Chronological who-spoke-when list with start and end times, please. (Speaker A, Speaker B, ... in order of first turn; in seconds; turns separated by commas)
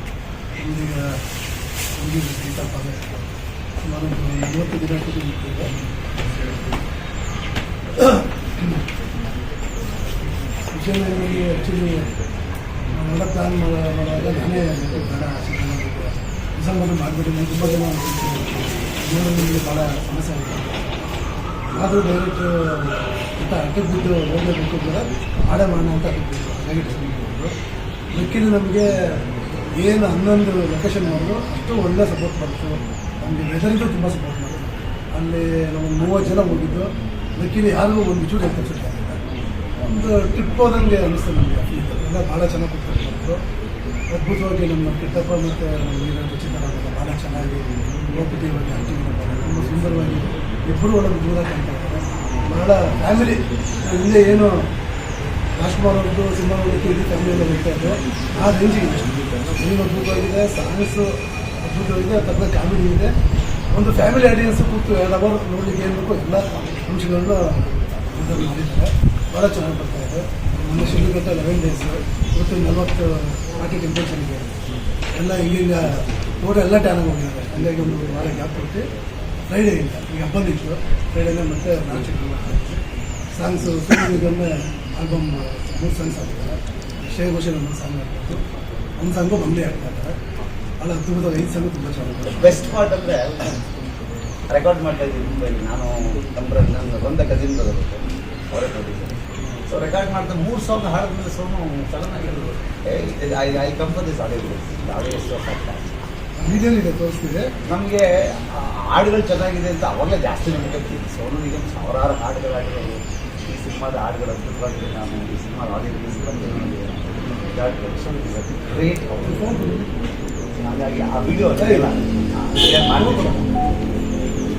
Speaker A: 0.6-1.0, Speaker A: 2.0-5.7, Speaker A: 8.0-8.8, Speaker A: 10.7-12.1, Speaker A: 12.9-20.9, Speaker A: 21.8-27.5, Speaker A: 28.1-28.9, Speaker A: 29.8-39.2, Speaker A: 39.9-43.4, Speaker A: 44.1-54.5, Speaker A: 55.6-61.1, Speaker A: 61.6-63.1, Speaker A: 63.7-67.4, Speaker A: 68.1-74.5, Speaker A: 75.2-78.8, Speaker A: 79.5-82.8, Speaker A: 83.4-86.6, Speaker A: 87.1-88.4, Speaker A: 89.0-90.2, Speaker A: 90.8-92.6, Speaker B: 92.3-93.4, Speaker B: 94.5-99.2, Speaker B: 99.7-105.9, Speaker A: 106.4-107.5, Speaker B: 107.7-108.0, Speaker B: 108.6-113.0, Speaker B: 113.5-119.5, Speaker A: 119.2-119.8, Speaker B: 120.6-123.5, Speaker A: 121.6-121.9, Speaker A: 123.0-123.5